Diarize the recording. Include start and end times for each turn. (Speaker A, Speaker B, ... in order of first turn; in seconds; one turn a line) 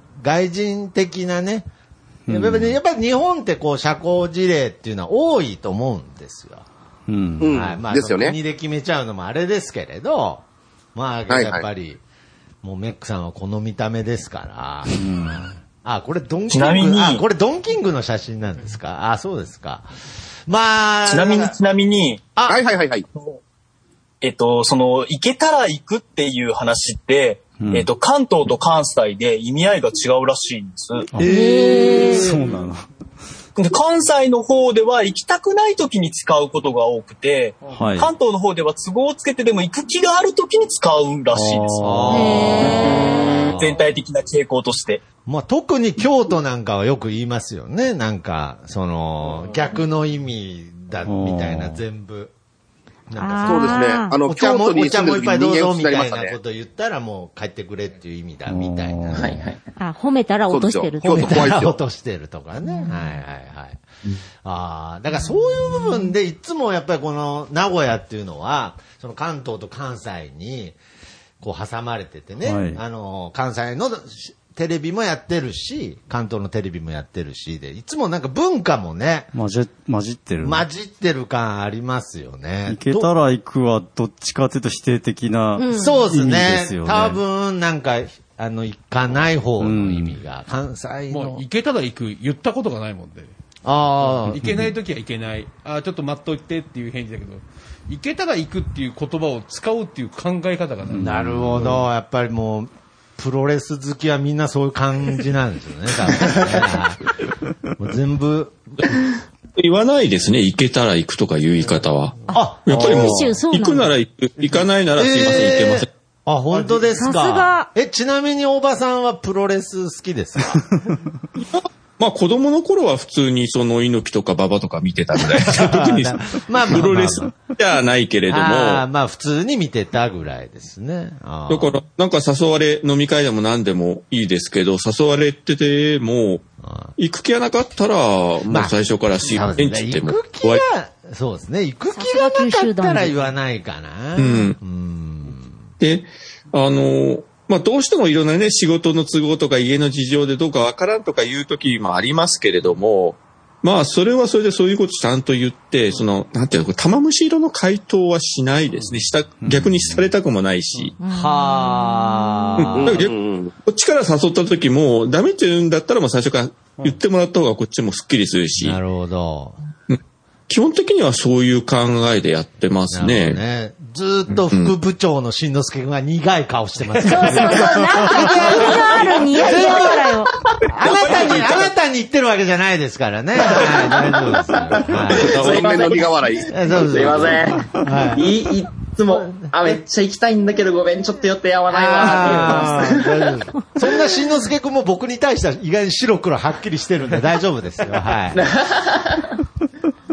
Speaker A: 0.2-1.7
Speaker B: 2.3-2.7
Speaker A: 2.3-6.6
Speaker B: 7.1-7.5
Speaker C: 7.4-8.3
Speaker A: 7.4-10.4
Speaker A: 10.9-12.0
Speaker C: 11.3-11.6
Speaker A: 12.6-19.9
Speaker B: 14.9-15.4
Speaker D: 16.5-17.2
Speaker A: 20.5-21.5
Speaker D: 21.1-22.3
Speaker C: 22.5-23.1
Speaker D: 24.2-31.1
Speaker B: 27.6-27.9
Speaker B: 31.1-32.8
Speaker A: 31.2-32.4
Speaker E: 31.2-32.3
Speaker D: 33.5-45.0
Speaker B: 37.7-38.1
Speaker B: 41.3-42.4
Speaker A: 41.8-43.8
Speaker E: 42.1-43.3
Speaker A: 45.2-52.3
Speaker B: 51.1-51.8
Speaker A: 53.1-59.3
Speaker E: 53.2-54.1
Speaker C: 53.4-56.3
Speaker B: 58.5-59.3
Speaker F: 59.1-59.6
Speaker E: 59.8-61.4
Speaker C: 60.5-61.7
Speaker A: 61.0-63.8
Speaker E: 62.6-63.0
Speaker A: 64.4-70.8
Speaker A: 71.4-79.3
Speaker B: 72.4-72.8
Speaker B: 79.3-80.6
Speaker A: 80.4-83.1
Speaker B: 82.7-87.2
Speaker E: 85.6-86.0
Speaker A: 85.7-91.4
Speaker B: 89.6-90.2
Speaker G: 91.1-93.3
Speaker A: 93.6-94.4
Speaker G: 94.1-101.3
Speaker B: 94.4-94.7
Speaker B: 100.9-101.8
Speaker A: 101.0-107.1
Speaker A: 107.8-108.9
Speaker H: 109.6-115.9
Speaker A: 112.3-113.3
Speaker E: 112.3-113.9
Speaker A: 115.0-120.6
Speaker E: 117.0-117.7
Speaker H: 122.0-128.8
Speaker A: 125.2-127.3
Speaker A: 128.3-131.8
Speaker H: 131.5-136.4
Speaker A: 136.6-136.9
Speaker H: 137.0-140.6
Speaker A: 138.5-145.6
Speaker E: 141.9-143.1
Speaker H: 144.2-144.6
Speaker H: 145.8-160.9
Speaker B: 159.4-160.1
Speaker E: 161.0-162.6
Speaker A: 161.1-163.1
Speaker H: 162.6-163.1
Speaker C: 162.8-163.5
Speaker H: 163.6-168.8
Speaker A: 168.6-169.6
Speaker H: 169.9-173.4
Speaker A: 172.9-185.3
Speaker H: 174.5-174.7
Speaker E: 177.0-181.1
Speaker F: 183.5-193.3
Speaker C: 185.2-186.6
Speaker A: 186.5-188.3
Speaker A: 189.1-189.8
Speaker A: 191.7-198.4
Speaker F: 198.3-199.3